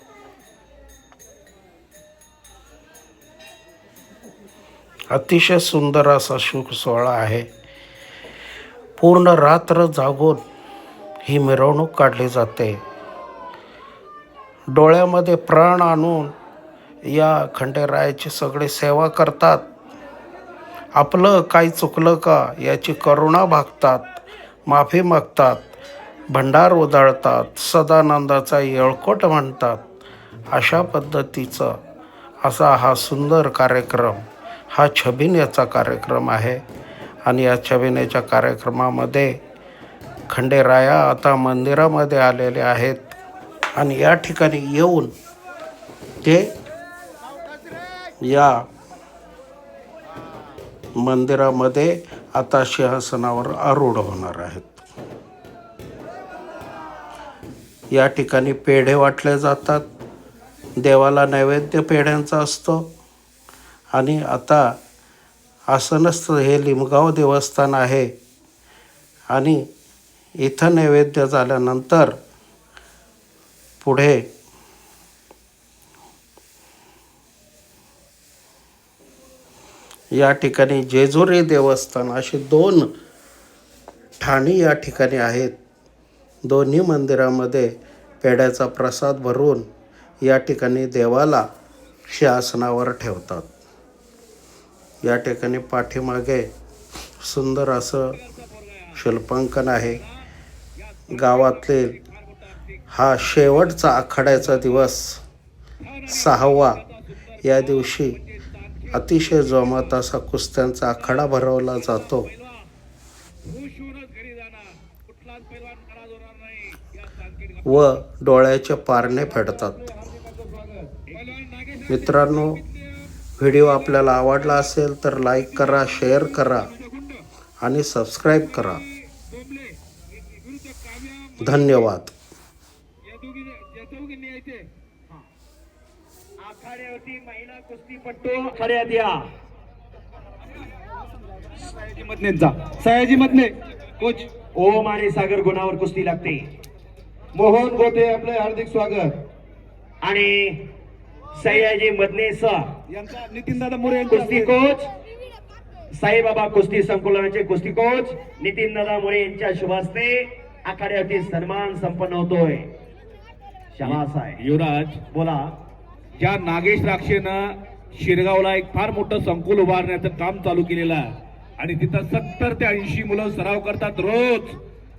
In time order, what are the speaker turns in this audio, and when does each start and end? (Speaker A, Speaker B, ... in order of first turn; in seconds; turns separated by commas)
Speaker A: 5.1-7.5, Speaker A: 9.0-10.4, Speaker A: 11.2-12.8, Speaker A: 14.7-16.3, Speaker A: 17.1-19.6, Speaker A: 20.9-25.7, Speaker A: 26.3-29.9, Speaker A: 30.5-31.8, Speaker A: 32.4-36.6, Speaker A: 37.2-39.4, Speaker A: 40.3-43.2, Speaker A: 43.8-45.1, Speaker A: 46.2-46.5, Speaker A: 48.2-48.7, Speaker A: 51.0-54.9, Speaker A: 57.9-59.8, Speaker A: 60.8-62.9, Speaker A: 63.9-64.8, Speaker A: 65.7-68.1, Speaker A: 69.3-69.7, Speaker A: 70.4-72.2, Speaker A: 73.8-74.3, Speaker A: 80.1-82.9, Speaker A: 84.2-85.5, Speaker A: 86.4-89.7, Speaker A: 90.2-91.5, Speaker A: 92.1-93.5, Speaker A: 95.0-96.5, Speaker A: 97.2-98.2, Speaker B: 98.2-99.0, Speaker A: 98.9-100.0, Speaker B: 100.8-102.6, Speaker A: 101.1-101.9, Speaker A: 102.9-105.2, Speaker B: 105.8-109.6, Speaker A: 106.1-106.8, Speaker A: 107.4-108.2, Speaker A: 108.9-112.3, Speaker B: 112.1-112.7, Speaker B: 113.4-117.9, Speaker A: 117.6-119.8, Speaker B: 120.0-123.0, Speaker A: 121.9-122.6, Speaker A: 123.4-126.7, Speaker B: 125.6-127.3, Speaker A: 127.6-128.8, Speaker B: 128.5-131.8, Speaker A: 131.4-132.1, Speaker B: 133.0-134.7, Speaker C: 136.4-139.3, Speaker B: 141.6-144.3, Speaker C: 144.5-146.5, Speaker B: 147.3-149.2, Speaker C: 150.0-150.7, Speaker C: 151.3-152.7, Speaker B: 152.9-154.6, Speaker C: 154.1-154.9, Speaker C: 155.9-162.7, Speaker C: 163.7-164.4, Speaker B: 163.8-165.0, Speaker C: 165.1-165.6, Speaker B: 166.2-174.6